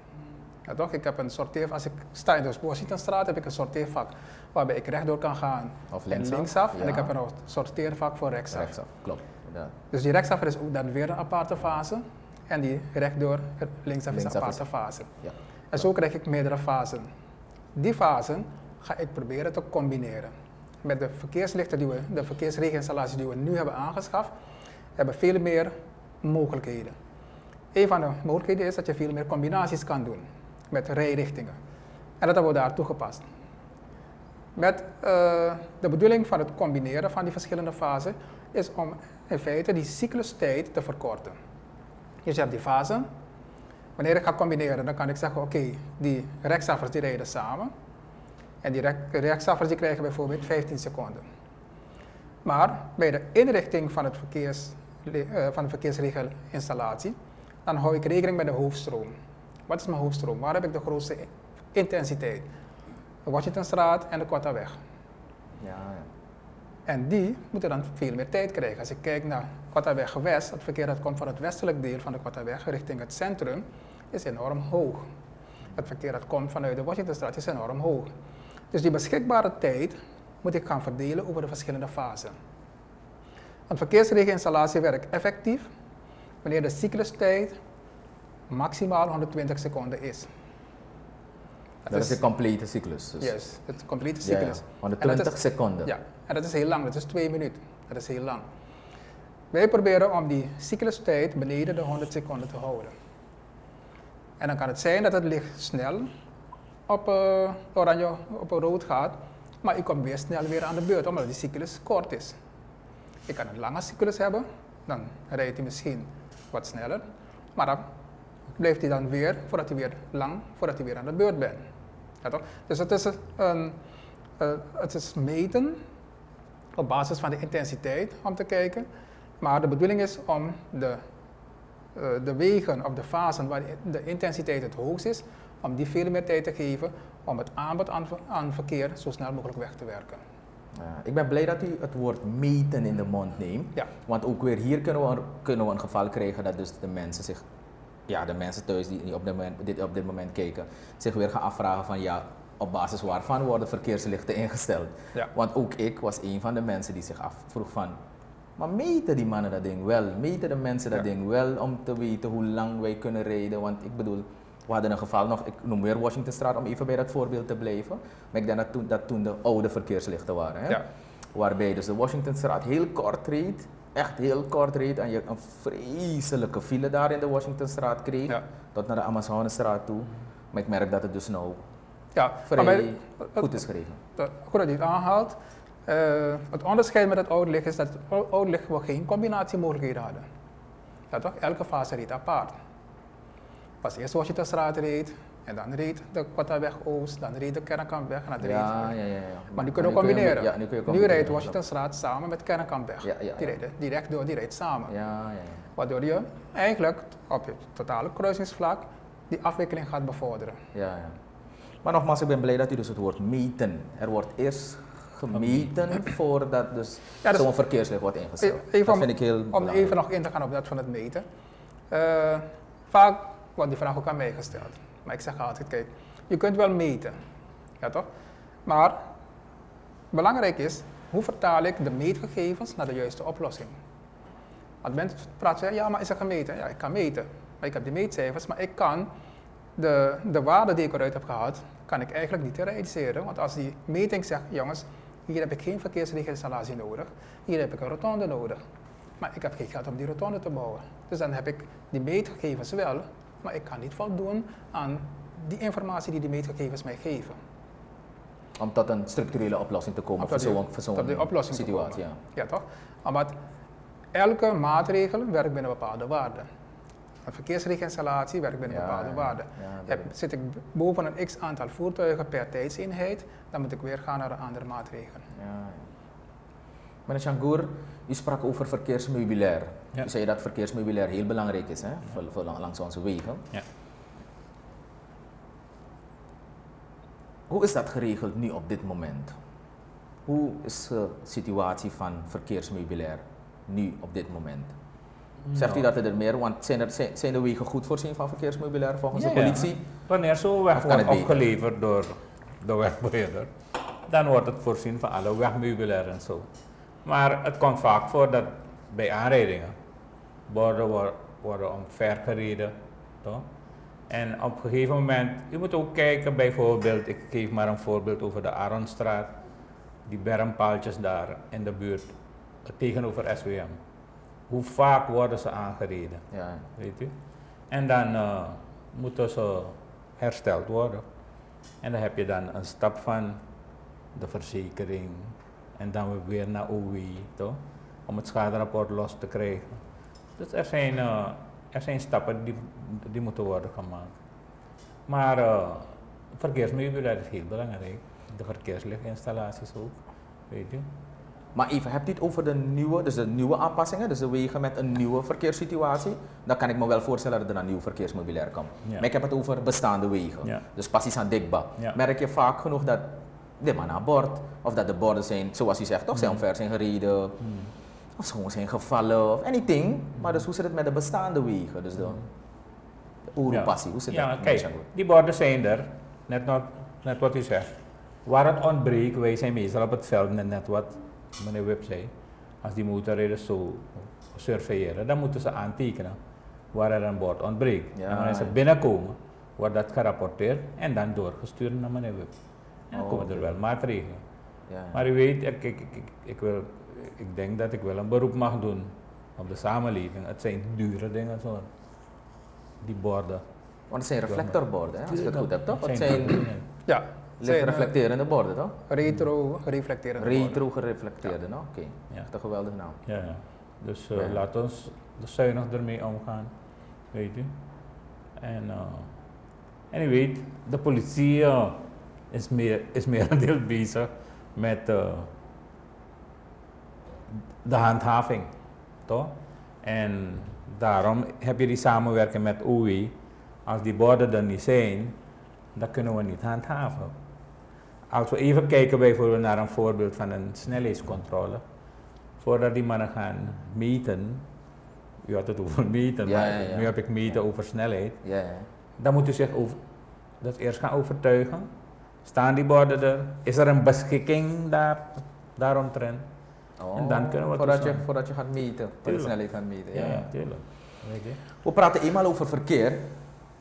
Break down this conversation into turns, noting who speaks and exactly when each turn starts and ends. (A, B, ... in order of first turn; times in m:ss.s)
0:00.7-0:08.7 A
0:05.9-0:07.1 B
0:08.5-0:09.7 B
0:09.9-0:15.1 A
0:14.1-0:14.6 B
0:15.2-0:15.8 B
0:15.7-0:17.1 A
0:17.8-0:20.3 A
0:20.8-0:24.3 A
0:25.0-0:27.0 A
0:27.7-0:31.6 A
0:32.2-0:33.2 A
0:34.6-0:41.4 A
0:42.2-0:43.1 A
0:44.0-0:47.7 A
0:48.6-0:51.2 A
0:52.4-0:59.1 A
0:59.7-1:02.5 A
1:03.3-1:04.8 A
1:05.6-1:06.1 B
1:06.9-1:15.0 A
1:15.8-1:18.1 A
1:18.7-1:22.4 A
1:23.7-1:25.7 A
1:26.4-1:27.6 A
1:28.5-1:30.3 A
1:31.9-1:32.2 A
1:31.9-1:33.3 B
1:33.2-1:38.5 A
1:34.2-1:35.9 B
1:39.5-1:42.9 A
1:44.4-1:46.1 A
1:46.9-1:52.4 A
1:53.3-1:57.9 A
1:58.6-2:01.6 A
2:02.2-2:03.8 A
2:04.4-2:05.8 A
2:06.8-2:08.9 A
2:09.4-2:11.0 A
2:12.0-2:20.2 A
2:20.7-2:27.4 B
2:28.1-2:38.0 B
2:38.6-2:50.8 B
2:51.3-3:01.6 B
3:02.2-3:03.6 A
3:02.5-3:04.0 B
3:04.2-3:10.3 A
3:11.1-3:12.6 A
3:13.8-3:18.9 A
3:18.4-3:21.6 B
3:19.6-3:24.9 A
3:23.0-3:23.6 B
3:24.9-3:25.6 B
3:25.8-3:30.6 A
3:30.7-3:31.2 B
3:31.8-3:40.0 B
3:35.3-3:35.6 C
3:38.4-3:41.3 A
3:41.9-3:47.2 A
3:47.8-3:48.1 A
3:48.7-3:49.1 A
3:50.1-3:53.8 A
3:54.8-3:59.1 A
3:59.8-4:08.6 A
4:09.2-4:17.4 A
4:18.6-4:22.2 B
4:20.2-4:23.4 A
4:24.1-4:26.5 A
4:27.3-4:35.3 A
4:28.7-4:30.1 B
4:35.3-4:35.9 B
4:37.1-4:43.4 B
4:47.5-4:49.4 B
4:50.3-4:54.7 B
4:55.5-4:55.8 C
4:55.5-4:59.8 B
4:59.1-5:03.5 C
5:00.8-5:01.5 B
5:04.1-5:06.5 C
5:07.0-5:09.8 C
5:10.5-5:13.5 C
5:14.1-5:19.4 C
5:20.1-5:22.1 C
5:22.6-5:23.8 C
5:24.5-5:26.2 C
5:26.3-5:26.7 B
5:26.8-5:27.1 C
5:27.7-5:31.0 C
5:31.8-5:33.4 C
5:34.2-5:39.8 C
5:40.4-5:44.1 C
5:45.1-5:50.0 C
5:50.5-5:50.8 C
5:51.6-6:07.4 B
6:06.2-6:06.4 C
6:07.4-6:07.7 C
6:08.2-6:12.2 B
6:13.3-6:14.9 B
6:13.5-6:17.7 C
6:18.2-6:26.2 C
6:26.7-6:32.3 C
6:28.0-6:28.6 B
6:32.9-6:34.2 C
6:32.9-6:33.5 B
6:34.7-6:35.0 B
6:34.9-6:41.7 C
6:42.8-6:43.4 C
6:43.9-6:46.5 B
6:44.3-6:46.6 C
6:46.9-6:47.9 A
6:47.4-6:48.8 B
6:48.9-6:50.6 A
6:50.2-6:53.0 B
6:53.1-6:56.5 C
6:54.1-6:54.4 B
6:57.1-6:57.5 C
6:58.4-6:59.3 C
6:59.9-7:05.3 C
7:07.6-7:08.5 C
7:09.1-7:13.2 C
7:13.7-7:15.2 C
7:15.8-7:17.1 C
7:18.1-7:21.6 C
7:22.4-7:24.4 C
7:25.3-7:28.2 C
7:26.2-7:26.9 B
7:28.2-7:28.7 B
7:29.0-7:29.8 C
7:30.4-7:31.7 C
7:32.2-7:36.2 C
7:36.8-7:40.3 B
7:36.9-7:38.1 C
7:39.1-7:39.3 C
7:39.9-7:41.4 C
7:41.6-7:43.1 B